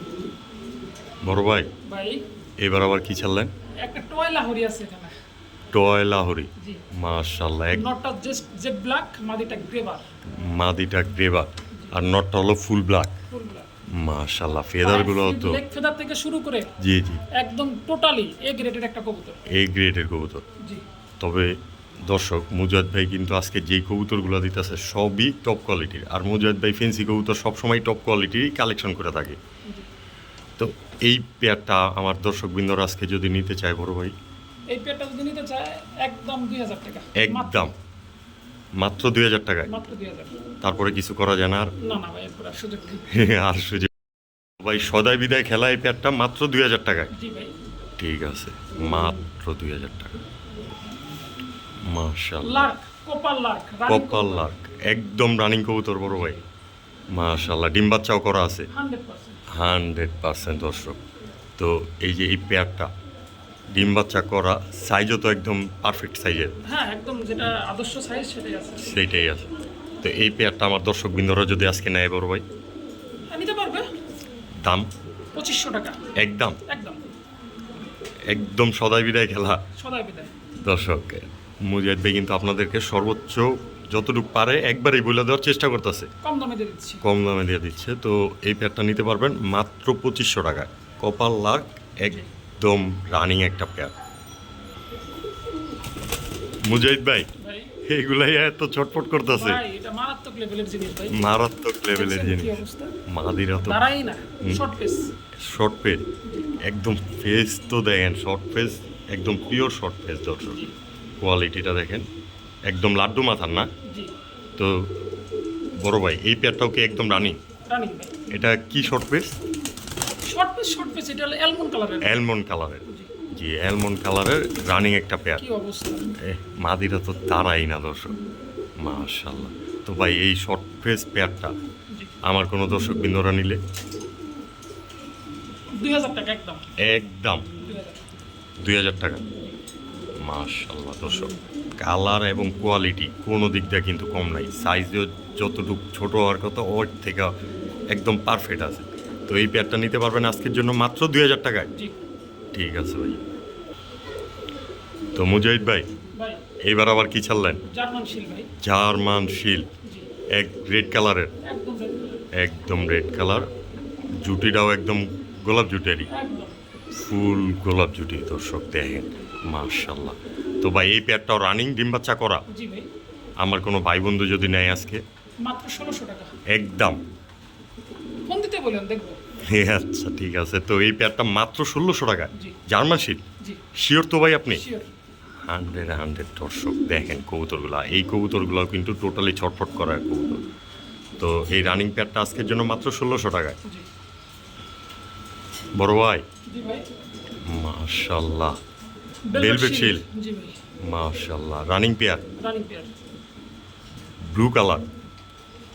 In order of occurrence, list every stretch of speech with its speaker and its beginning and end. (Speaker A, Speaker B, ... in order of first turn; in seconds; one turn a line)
Speaker A: 1.2-1.7
Speaker B: 1.8-2.2
Speaker A: 2.6-3.5
Speaker B: 3.8-5.1
Speaker A: 5.7-7.8
Speaker B: 6.6-6.8
Speaker B: 7.7-10.0
Speaker A: 10.3-13.1
Speaker B: 13.3-13.7
Speaker A: 13.9-15.6
Speaker B: 14.8-16.7
Speaker A: 16.8-17.2
Speaker B: 17.3-19.4
Speaker A: 19.5-20.4
Speaker A: 21.2-21.5
Speaker A: 22.1-29.4
Speaker A: 30.6-34.1
Speaker B: 34.7-37.7
Speaker A: 37.1-37.7
Speaker A: 38.8-39.7
Speaker B: 39.7-40.3
Speaker A: 40.6-41.7
Speaker B: 41.8-43.0
Speaker A: 43.1-43.9
Speaker A: 44.6-47.1
Speaker B: 47.1-47.5
Speaker A: 48.0-50.2
Speaker A: 51.8-52.7
Speaker B: 52.4-54.5
Speaker A: 53.9-56.4
Speaker B: 56.1-56.4
Speaker A: 57.1-58.7
Speaker B: 58.7-59.4
Speaker A: 59.5-61.0
Speaker A: 61.6-62.9
Speaker A: 63.7-66.5
Speaker B: 66.7-68.9
Speaker A: 68.8-72.4
Speaker B: 73.3-73.9
Speaker A: 74.6-74.9
Speaker B: 75.3-76.0
Speaker A: 76.2-76.6
Speaker B: 76.7-77.0
Speaker A: 78.3-79.6
Speaker B: 79.8-80.3
Speaker A: 80.6-86.1
Speaker B: 86.2-87.0
Speaker A: 87.0-93.9
Speaker B: 92.0-92.3
Speaker A: 96.6-97.3
Speaker B: 97.3-97.7
Speaker A: 97.8-99.6
Speaker B: 99.3-101.3
Speaker A: 101.1-103.8
Speaker B: 101.9-102.9
Speaker B: 103.6-105.0
Speaker A: 105.3-106.0
Speaker B: 106.2-106.5
Speaker A: 106.6-110.6
Speaker B: 110.5-110.7
Speaker A: 111.2-112.0
Speaker A: 112.7-113.7
Speaker B: 113.8-114.1
Speaker A: 114.6-114.9
Speaker A: 115.8-117.4
Speaker B: 117.7-118.1
Speaker A: 118.3-119.3
Speaker B: 120.2-122.2
Speaker A: 122.0-125.4
Speaker B: 122.8-123.1
Speaker B: 125.4-126.1
Speaker A: 126.2-128.2
Speaker A: 128.8-131.5
Speaker A: 132.2-133.6
Speaker B: 135.7-136.6
Speaker A: 136.8-137.5
Speaker B: 137.6-138.0
Speaker A: 138.6-139.2
Speaker A: 140.2-147.3
Speaker B: 141.1-141.4
Speaker A: 147.9-151.7
Speaker A: 152.5-153.2
Speaker A: 155.1-155.9
Speaker B: 156.1-156.4
Speaker A: 156.6-157.6
Speaker B: 157.6-158.5
Speaker A: 158.6-159.7
Speaker B: 159.8-160.1
Speaker A: 160.3-161.3
Speaker B: 161.4-162.2
Speaker A: 162.3-163.5
Speaker A: 164.2-166.1
Speaker B: 166.1-166.6
Speaker A: 166.9-172.4
Speaker B: 172.5-172.9
Speaker A: 173.4-175.0
Speaker B: 175.4-176.3
Speaker A: 176.5-177.0
Speaker B: 178.3-179.2
Speaker A: 179.5-183.2
Speaker A: 183.7-184.6
Speaker B: 184.5-184.9
Speaker A: 185.5-190.4
Speaker A: 191.2-193.6
Speaker A: 195.8-196.2
Speaker B: 196.4-196.8
Speaker A: 197.4-198.6
Speaker B: 199.3-200.6
Speaker A: 199.3-200.0
Speaker A: 200.8-202.2
Speaker B: 202.4-202.9
Speaker A: 204.2-204.9